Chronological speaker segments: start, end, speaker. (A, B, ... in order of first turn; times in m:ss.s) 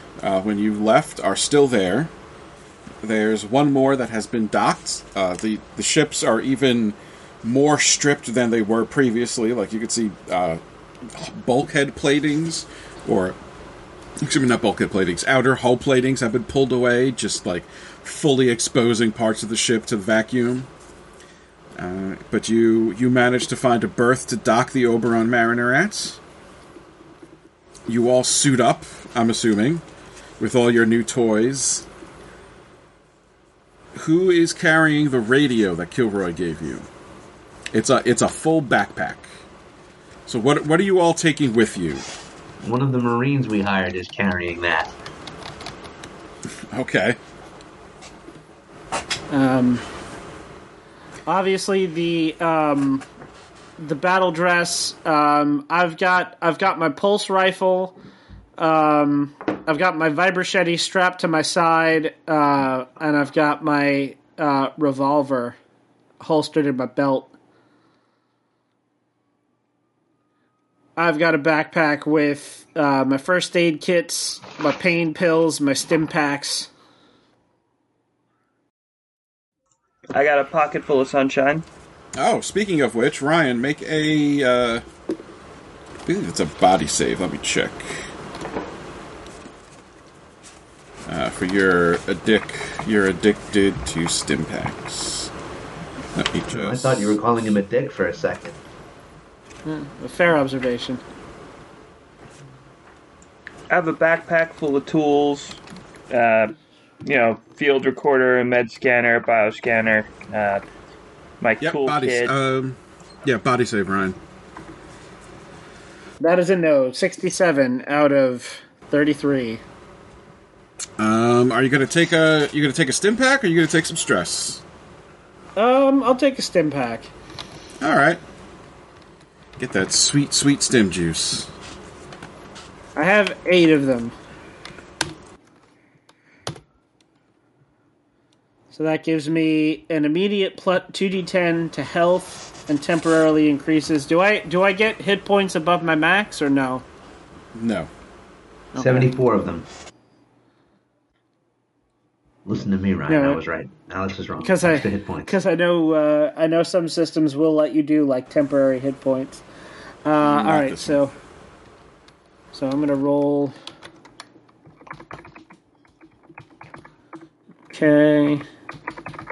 0:00.2-0:02.1 A
0:03.0-0:13.4 A
0:14.2-0:20.7 A
0:21.8-0:26.2 A
0:27.9-0:29.8 A
0:30.4-0:31.9 A
0:34.0-0:36.9 A
0:37.7-0:39.3 A
0:40.3-0:42.1 A
0:42.6-0:45.0 B
0:46.7-0:47.2 A
0:49.3-0:49.8 C
0:51.3-0:53.0 C
0:53.8-0:58.0 C
0:58.6-1:05.6 C
1:06.2-1:07.3 C
1:11.0-1:16.7 C
1:20.1-1:21.6 D
1:22.2-1:24.8 A
1:26.1-1:28.1 A
1:31.1-1:35.3 A
1:36.2-1:37.1 A
1:36.5-1:38.6 B
1:39.6-1:41.0 C
1:43.7-1:46.5 D
1:47.0-1:50.6 D
1:51.4-1:52.3 D
1:51.6-1:54.2 A
1:56.2-1:59.6 C
2:01.0-2:04.6 A
2:05.6-2:07.1 C
2:07.8-2:08.2 A
2:09.6-2:11.5 A
2:13.0-2:14.2 C
2:18.7-2:26.8 C
2:27.6-2:27.9 A
2:28.7-2:29.1 C
2:28.8-2:29.7 B
2:32.4-2:35.4 B
2:33.1-2:33.4 C
2:34.4-2:39.4 C
2:40.0-2:41.1 C
2:40.2-2:41.0 A
2:42.5-2:43.6 C
2:47.7-2:48.4 C